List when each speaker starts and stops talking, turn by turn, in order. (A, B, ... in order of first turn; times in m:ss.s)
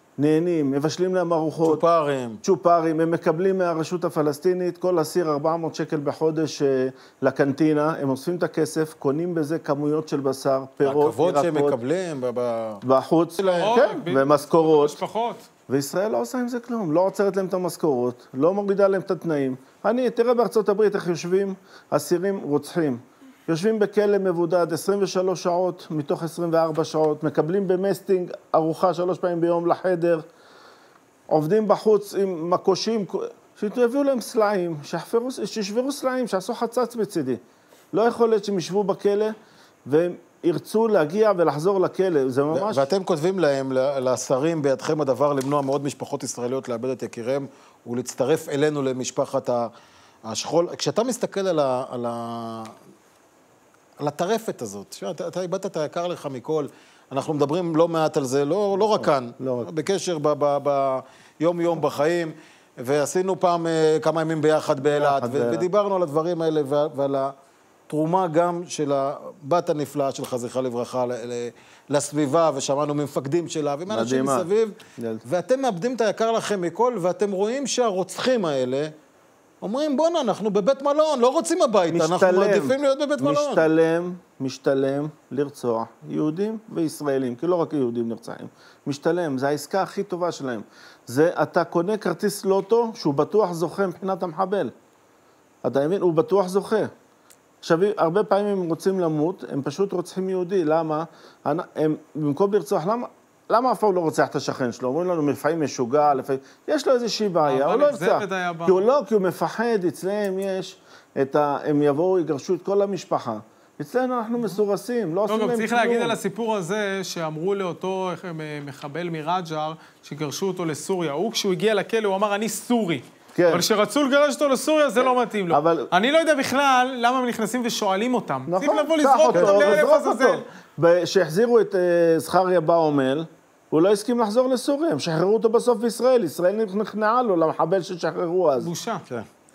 0:00.2-0:01.8 A
0:01.6-0:02.4 B
0:02.4-0:11.8 A
0:10.8-0:12.8 B
0:12.8-0:15.0 A
0:13.4-0:15.4 C
0:15.7-0:30.2 A
0:31.3-0:37.4 A
0:37.9-0:39.3 A
0:39.9-0:42.8 A
0:42.5-0:49.7 B
0:50.3-0:52.7 B
0:54.0-1:07.3 B
0:58.7-0:59.7 A
1:04.8-1:05.6 A
1:07.9-1:18.9 B
1:13.9-1:14.5 A
1:19.6-1:23.6 B
1:21.9-1:34.7 A
1:35.6-1:36.9 A
1:37.6-1:56.2 A
1:47.4-1:48.8 C
1:55.3-2:10.4 C
2:03.3-2:03.6 A
2:05.5-2:05.9 A
2:08.5-2:18.7 A
2:09.3-2:09.8 B
2:18.6-2:19.0 C